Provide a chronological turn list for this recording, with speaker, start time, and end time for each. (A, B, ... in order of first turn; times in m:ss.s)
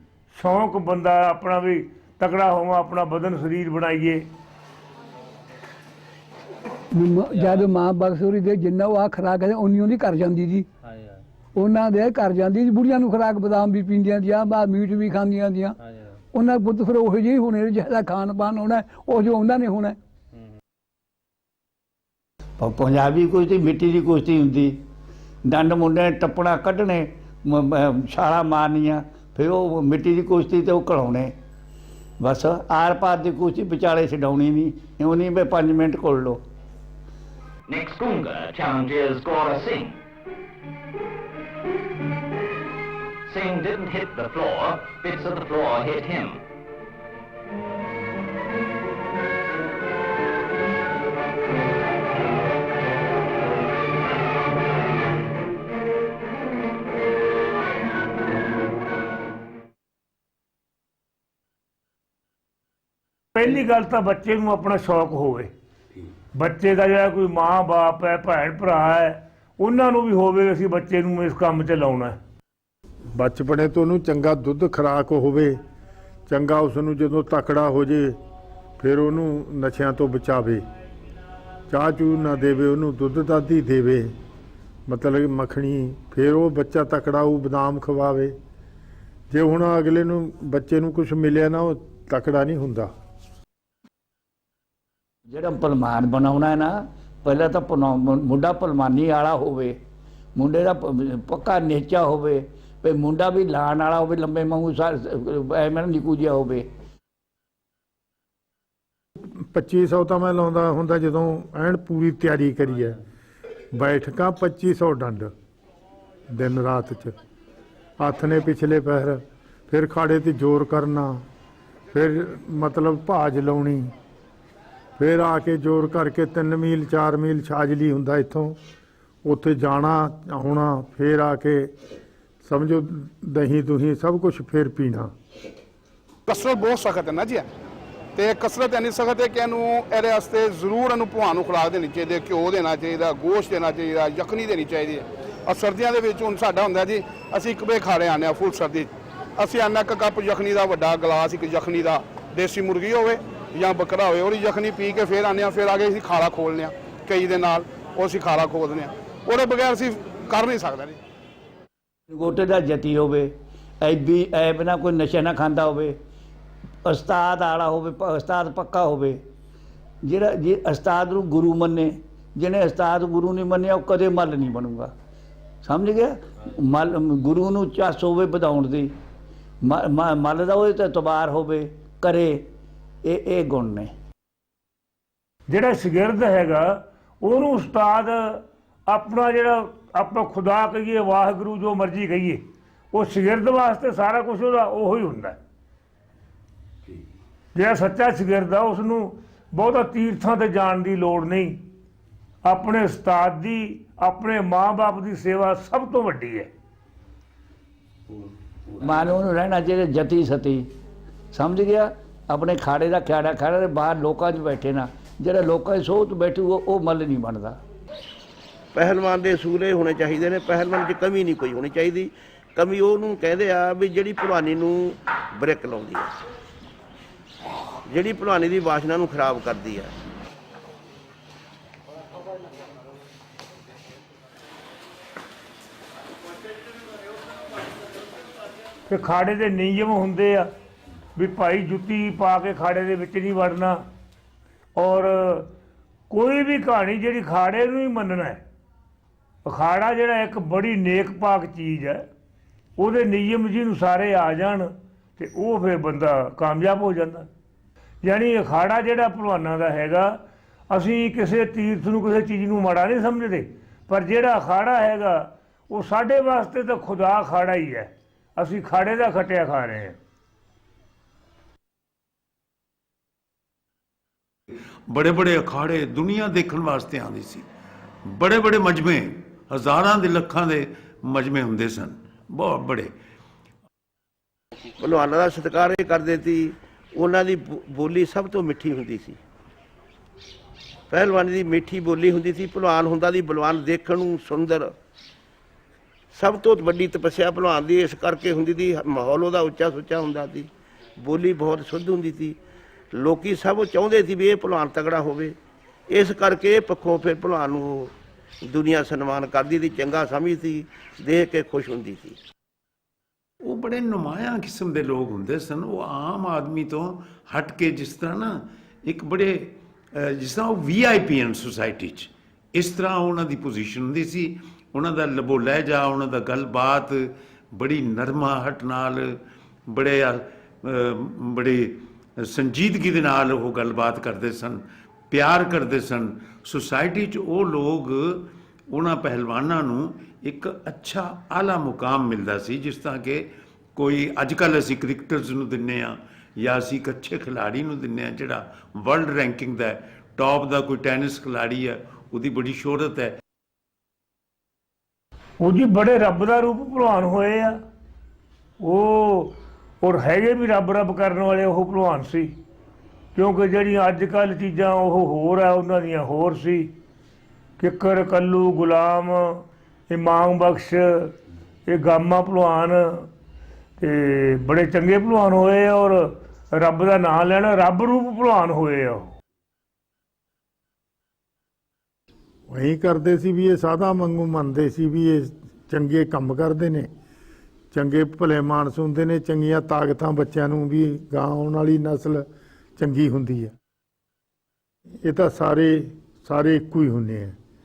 0:00.3-0:04.3 A
0:06.9-0:10.7 B
0:11.6-0:15.8 B
0:16.3-0:20.0 B
0:22.6-0:24.8 C
0:25.5-0:31.4 C
0:32.2-0:36.4 C
0:37.7-0:40.0 D
0:43.3-0:46.4 D
1:03.3-1:05.5 A
1:06.4-1:12.2 A
1:13.1-1:15.6 E
1:16.3-1:18.2 E
1:18.8-1:20.6 E
1:21.7-1:24.1 E
1:24.9-1:28.4 E
1:29.3-1:32.9 E
1:35.3-1:39.8 C
1:40.4-1:46.7 C
1:49.2-1:53.0 E
1:53.7-1:55.3 E
1:56.3-1:57.2 E
1:58.0-2:01.2 E
2:01.9-2:03.9 E
2:05.0-2:08.6 E
2:09.2-2:11.8 E
2:12.4-2:15.1 E
2:16.3-2:17.5 F
2:18.2-2:41.0 F
2:42.1-2:46.0 C
2:46.8-2:49.2 C
2:50.0-2:54.9 C
2:55.6-2:59.0 C
2:59.6-3:02.5 C
3:03.0-3:03.9 C
3:05.5-3:15.4 A
3:17.6-3:21.6 A
3:22.4-3:26.5 A
3:28.7-3:30.7 C
3:31.3-3:37.6 C
3:38.7-3:46.1 G
3:47.9-3:49.9 G
3:58.9-4:00.5 A
4:01.2-4:03.8 A
4:04.8-4:05.5 A
4:06.1-4:08.4 A
4:09.5-4:12.1 A
4:12.8-4:17.3 A
4:18.0-4:20.2 A
4:20.7-4:30.0 A
4:34.9-4:37.4 H
4:38.0-4:42.9 H
4:44.8-4:49.2 G
4:50.9-4:54.7 G
4:56.1-5:00.5 G
5:01.0-5:02.4 G
5:02.9-5:05.4 G
5:05.9-5:07.9 G
5:08.5-5:12.2 G
5:13.4-5:53.2 H
5:55.4-5:57.6 A
5:58.6-6:02.3 A
6:03.2-6:06.7 A
6:07.6-6:11.2 A
6:11.7-6:13.1 A
6:13.8-6:19.1 A
6:22.5-6:26.9 E
6:27.7-6:33.6 E
6:35.0-6:37.4 E